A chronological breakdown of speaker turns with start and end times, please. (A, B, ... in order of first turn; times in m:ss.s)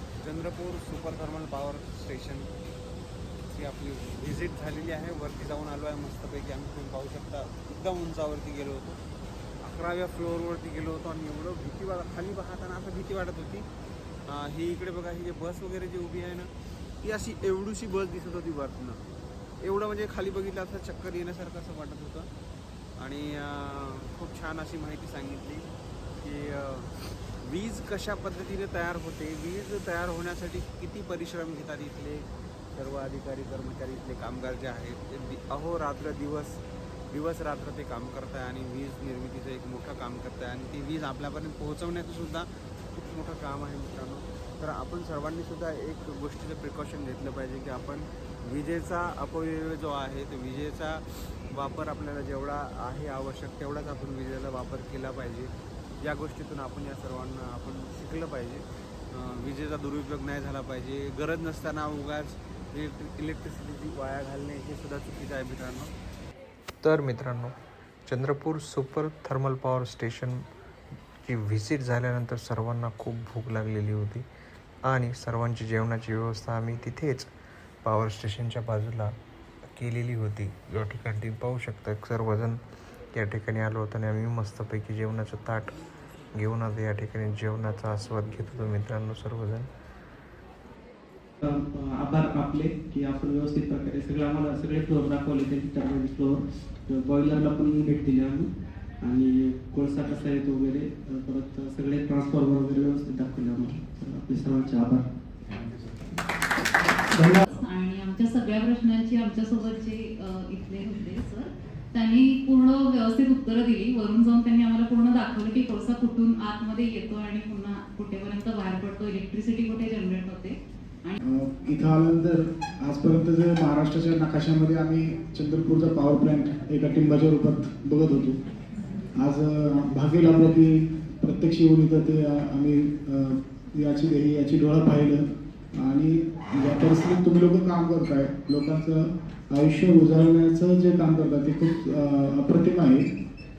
0:00.2-0:02.5 A
0:03.5-0:09.0 A
0:09.6-0:13.7 A
0:14.3-0:16.5 A
0:17.0-0:19.0 A
0:19.6-0:22.3 A
0:23.0-0:25.6 A
0:26.2-0:26.9 A
0:27.4-0:32.2 A
0:32.8-0:36.6 A
0:37.1-1:05.9 A
1:06.8-1:07.5 B
1:08.1-1:10.4 B
1:11.2-1:14.2 B
1:14.9-1:17.3 B
1:17.8-1:19.1 B
1:19.8-1:22.6 B
1:23.1-1:25.8 B
1:26.3-1:29.7 B
1:32.1-1:36.3 C
1:32.1-1:36.2 A
1:36.9-1:38.1 A
1:37.1-1:38.4 C
1:39.1-1:44.8 A
1:39.1-1:45.0 C
1:47.5-2:01.2 D
2:01.3-2:08.4 E
2:09.2-2:15.2 E
2:15.8-2:23.1 E